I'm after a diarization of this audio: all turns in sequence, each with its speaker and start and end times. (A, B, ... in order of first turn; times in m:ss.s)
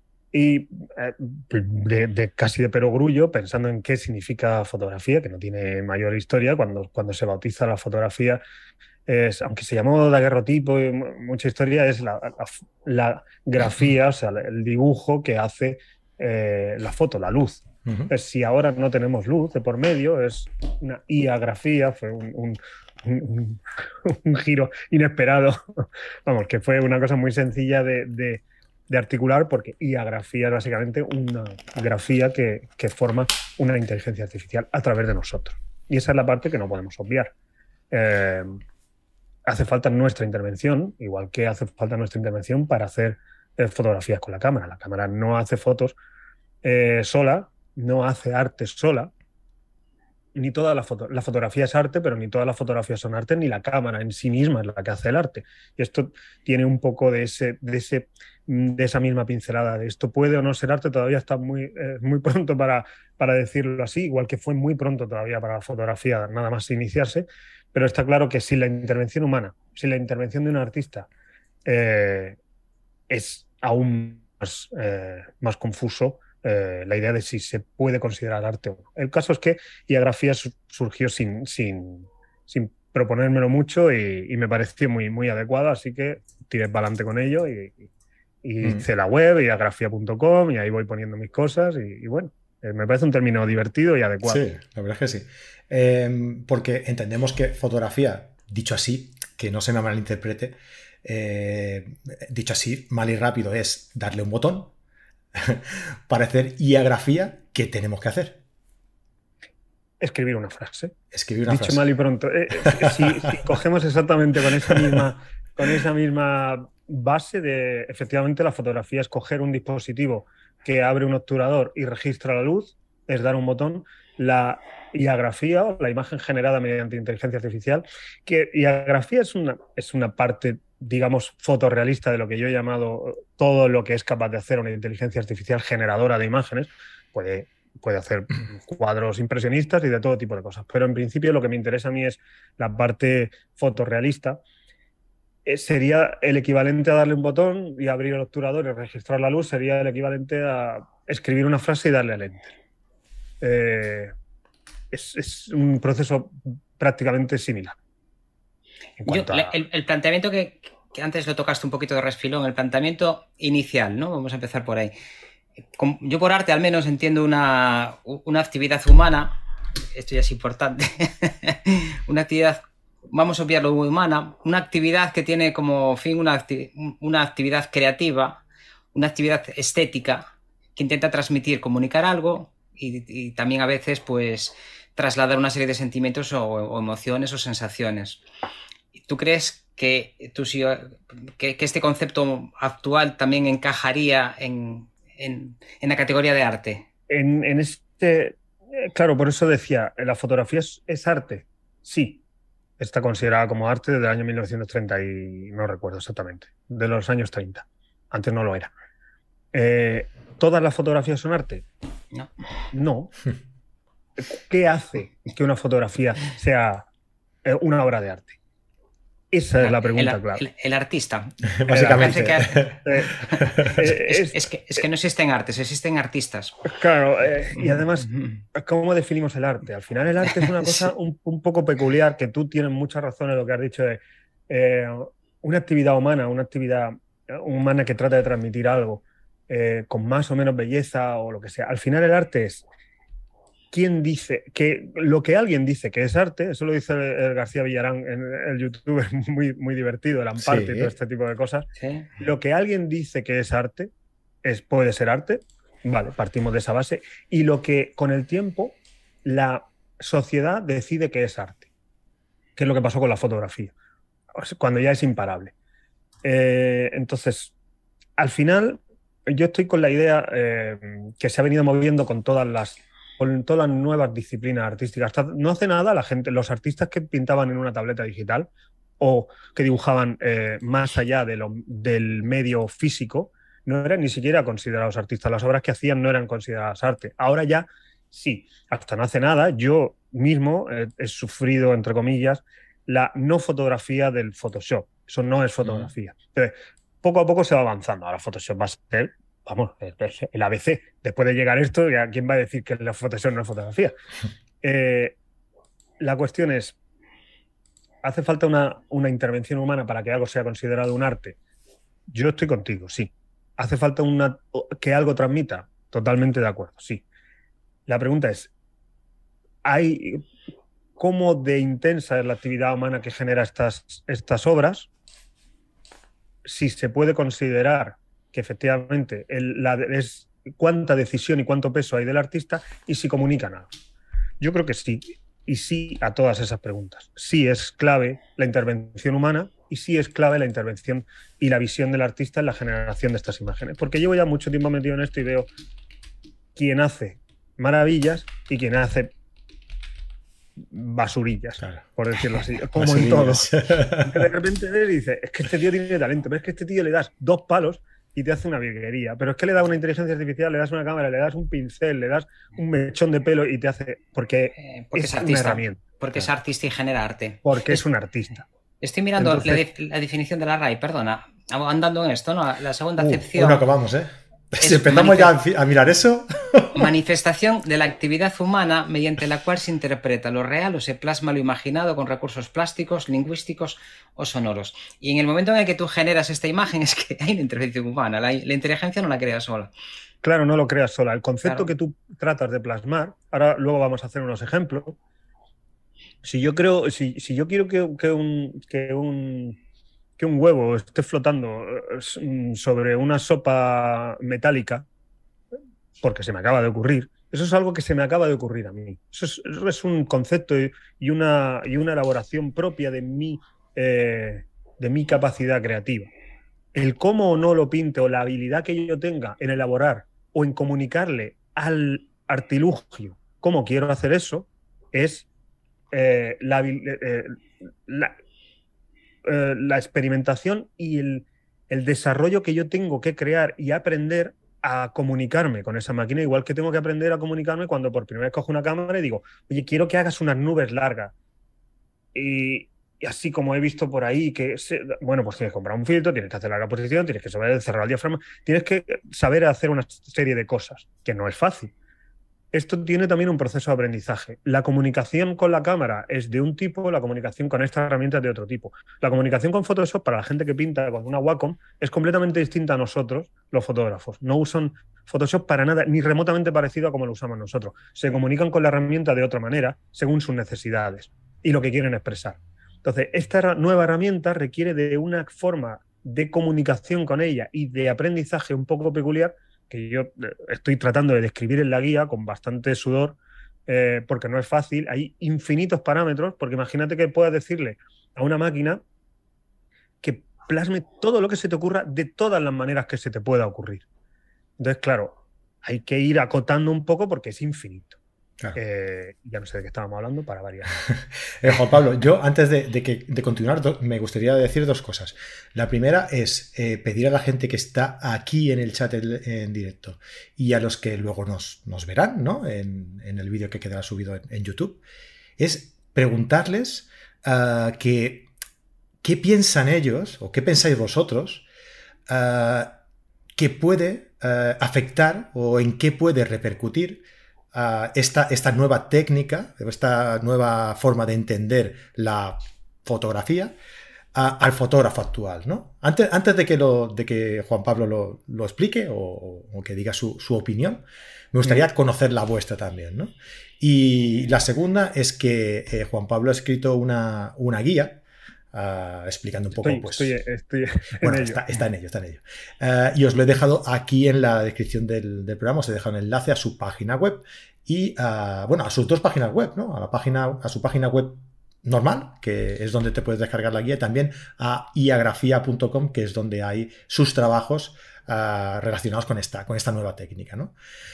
0:00.3-0:08.4 A
0:09.1-0:37.3 A
0:17.8-0:18.1 B
0:37.9-0:38.6 A
0:39.5-0:46.0 A
0:46.6-0:49.1 A
0:50.3-1:11.1 A
1:11.6-1:12.4 A
1:13.1-1:27.9 A
1:28.4-1:34.4 A
1:34.2-1:44.7 B
1:45.3-1:48.4 B
1:50.0-1:50.9 A
1:51.1-1:51.9 B
1:51.5-2:24.4 A
1:52.7-1:53.0 B
2:25.4-2:32.5 A
2:33.4-2:34.1 A
2:34.9-2:37.8 A
2:39.0-2:39.6 A
2:39.0-2:44.9 C
2:45.8-2:49.4 C
2:49.9-2:58.4 C
2:58.9-3:08.2 C
3:08.9-3:16.8 C
3:17.1-3:22.2 A
3:22.8-3:28.7 A
3:29.5-3:31.6 A
3:32.7-3:33.1 A
3:34.2-3:36.9 A
3:37.4-3:38.4 A
3:39.3-3:40.4 A
3:39.6-3:41.3 C
3:41.6-3:42.8 B
3:41.7-3:42.2 A
3:41.9-3:46.6 C
3:42.8-3:44.8 A
3:43.3-3:43.7 B
3:46.6-4:02.6 A
3:50.3-3:50.9 C
4:03.7-4:13.9 A
4:10.4-4:10.9 B
4:11.8-4:12.1 C
4:14.4-4:21.7 A
4:22.6-4:23.7 A
4:24.4-4:25.5 A
4:26.2-4:27.5 A
4:28.2-5:03.9 A
4:55.6-4:55.9 B
5:04.6-5:05.2 A
5:06.0-5:06.8 A
5:08.0-5:11.4 A
5:12.1-5:17.0 A
5:17.9-5:18.5 A
5:19.6-5:20.2 A
5:21.0-5:24.9 A
5:26.4-5:33.7 A
5:34.4-5:45.5 A
5:46.5-5:49.1 A
5:50.6-6:05.8 A
5:52.8-5:54.3 B
6:04.6-6:07.8 C
6:07.4-6:08.4 A
6:08.8-6:13.6 C
6:09.2-6:09.6 A
6:13.0-6:16.9 B
6:14.6-6:15.3 C
6:16.7-6:29.7 C
6:30.2-6:35.0 A
6:36.2-6:39.6 A
6:40.2-6:44.8 A
6:46.0-6:56.1 A
6:56.7-7:05.3 A
7:05.9-7:08.2 A
7:09.2-7:21.1 A
7:22.1-7:31.7 A
7:32.5-8:08.8 A
8:10.0-8:13.8 A
8:14.6-8:18.0 A
8:18.5-8:20.8 A
8:21.4-8:34.8 B
8:35.4-8:38.3 B
8:39.0-8:41.4 B
8:42.1-8:42.7 B
8:43.4-8:53.5 B
8:54.1-9:08.0 B
9:08.5-9:10.1 B
9:09.6-9:11.4 A
9:11.0-9:30.5 B